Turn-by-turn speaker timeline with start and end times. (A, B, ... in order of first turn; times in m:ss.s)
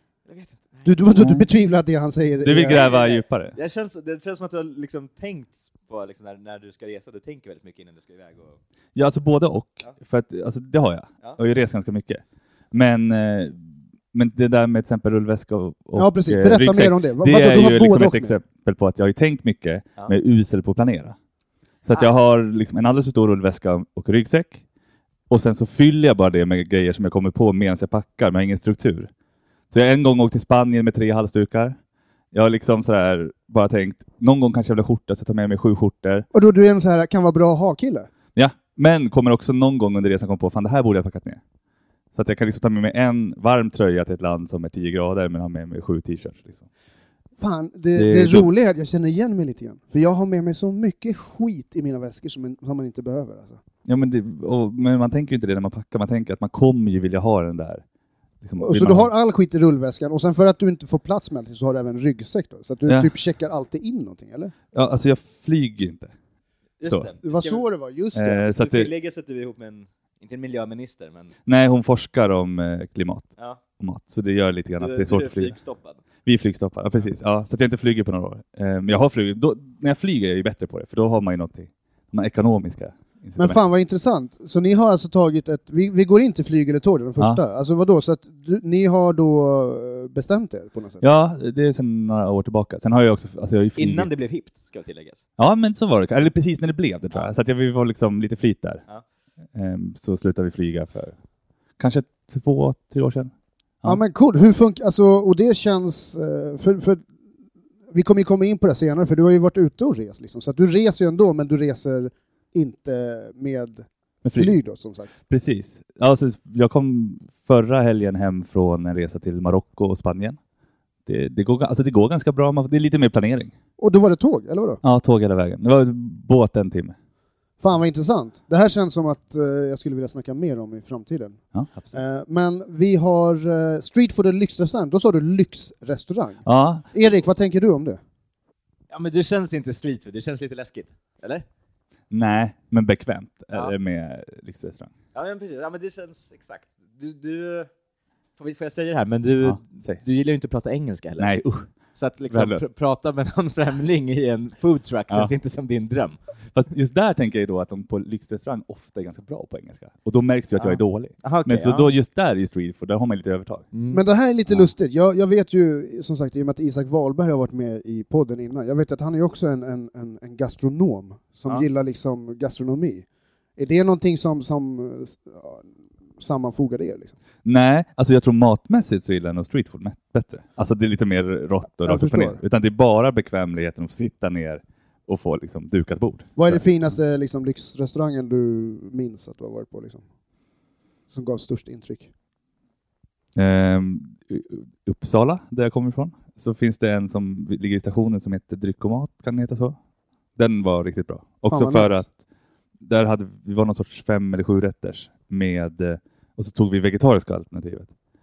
0:00.2-0:01.0 A
0:00.8-0:02.8 B
0:01.2-0:01.4 C
0:02.4-0:03.6 C
0:02.7-0:08.6 A
0:08.9-0:21.2 C
0:15.9-0:18.4 B
0:21.8-0:24.6 C
0:25.3-0:29.1 C
0:29.7-0:31.8 C
0:32.3-0:36.3 C
0:36.3-0:38.1 B
0:38.3-0:41.4 C
0:42.1-0:46.7 C
0:47.4-0:53.6 B
0:47.9-0:48.5 C
0:53.8-0:57.8 C
0:58.4-0:59.1 C
0:58.6-1:04.5 B
1:02.8-1:03.1 C
1:04.7-1:06.1 C
1:06.8-1:07.6 A
1:06.8-1:07.1 C
1:07.2-1:08.7 B
1:08.1-1:08.9 C
1:08.5-1:11.3 A
1:11.4-1:15.5 C
1:14.8-1:16.0 A
1:16.2-1:23.6 C
1:23.4-1:31.0 B
1:31.0-1:34.1 C
1:33.8-1:35.2 A
1:35.4-1:38.8 C
1:39.5-1:41.1 C
1:41.8-1:44.0 C
1:43.8-1:47.0 B
1:47.9-1:55.1 B
1:54.2-1:54.5 C
1:55.3-2:00.4 C
2:01.0-2:03.5 C
2:03.8-2:04.8 B
2:04.8-2:06.9 C
2:07.6-2:11.4 B
2:11.5-2:11.9 C
2:11.9-2:18.0 B
2:16.4-2:16.8 C
2:18.9-2:21.4 A
2:22.1-2:24.9 C
2:25.1-2:27.7 A
2:28.4-2:31.3 A
2:29.4-2:30.0 C
2:31.2-2:31.7 C
2:32.0-2:36.2 A
2:32.3-2:32.7 C
2:36.5-2:43.7 C
2:40.6-2:41.9 A
2:43.7-2:44.0 A
2:43.9-2:53.0 B
2:53.6-2:55.6 B
2:56.2-2:57.1 B
2:57.4-3:06.6 C
3:01.8-3:02.4 B
3:06.4-3:10.0 B
3:11.1-3:12.1 B
3:13.3-3:19.8 C
3:20.4-3:22.1 C
3:21.5-3:22.0 B
3:22.8-3:27.9 C